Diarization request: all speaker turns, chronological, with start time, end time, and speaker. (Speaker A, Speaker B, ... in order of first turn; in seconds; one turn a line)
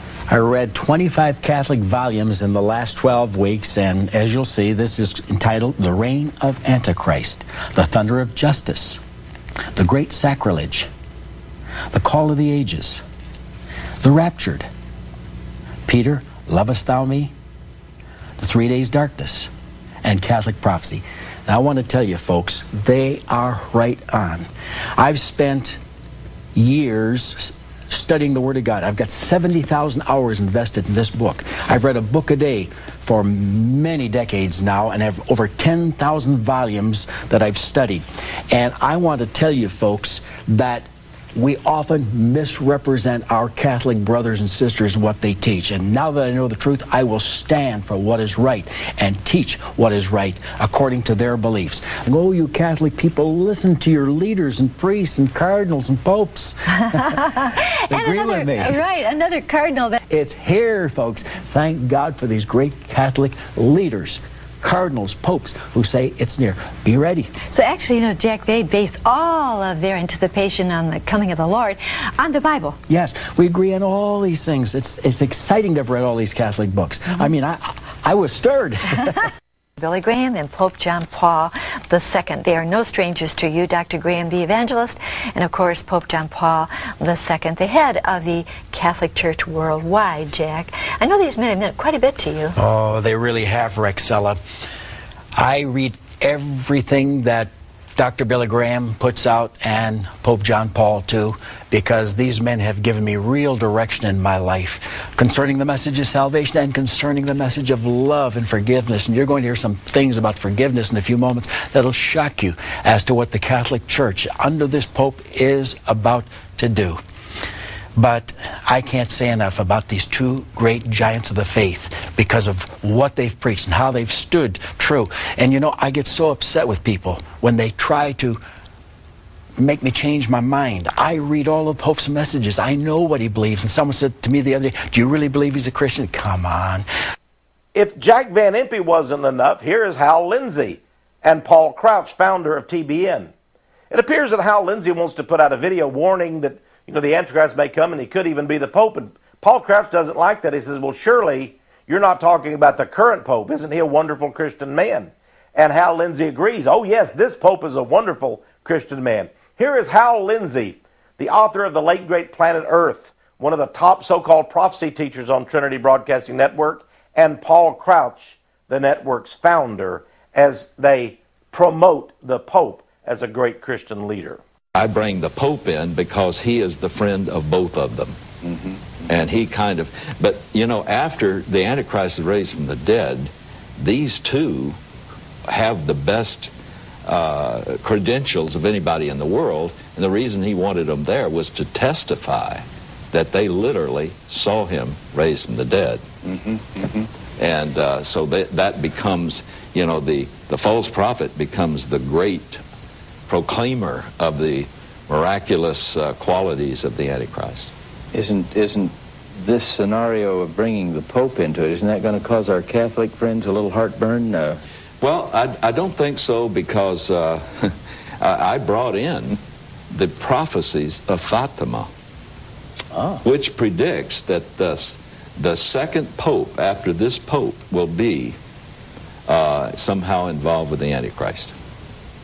Speaker A: 0.3-9.0
Speaker A: 9.7-10.9
Speaker A: 11.9-13.0
Speaker A: 14.0-14.7
Speaker A: 15.9-17.3
Speaker A: 18.4-19.5
Speaker A: 20.0-25.8
Speaker A: 26.6-57.2
Speaker B: 57.1-60.0
Speaker A: 57.9-58.8
Speaker A: 60.1-67.3
Speaker B: 67.5-72.8
Speaker A: 72.9-79.2
Speaker B: 79.8-92.6
Speaker A: 92.5-94.4
Speaker A: 95.3-117.0
Speaker A: 118.0-128.4
Speaker A: 129.6-136.9
Speaker C: 137.7-143.3
Speaker C: 143.9-174.4
Speaker D: 174.8-178.2
Speaker D: 179.1-184.8
Speaker D: 185.5-186.5
Speaker D: 187.1-196.1
Speaker D: 197.4-202.6
Speaker D: 203.3-207.7
Speaker E: 208.1-214.6
Speaker D: 215.0-219.4
Speaker D: 219.9-221.9
Speaker E: 222.9-223.2
Speaker D: 223.2-228.4
Speaker D: 229.3-231.5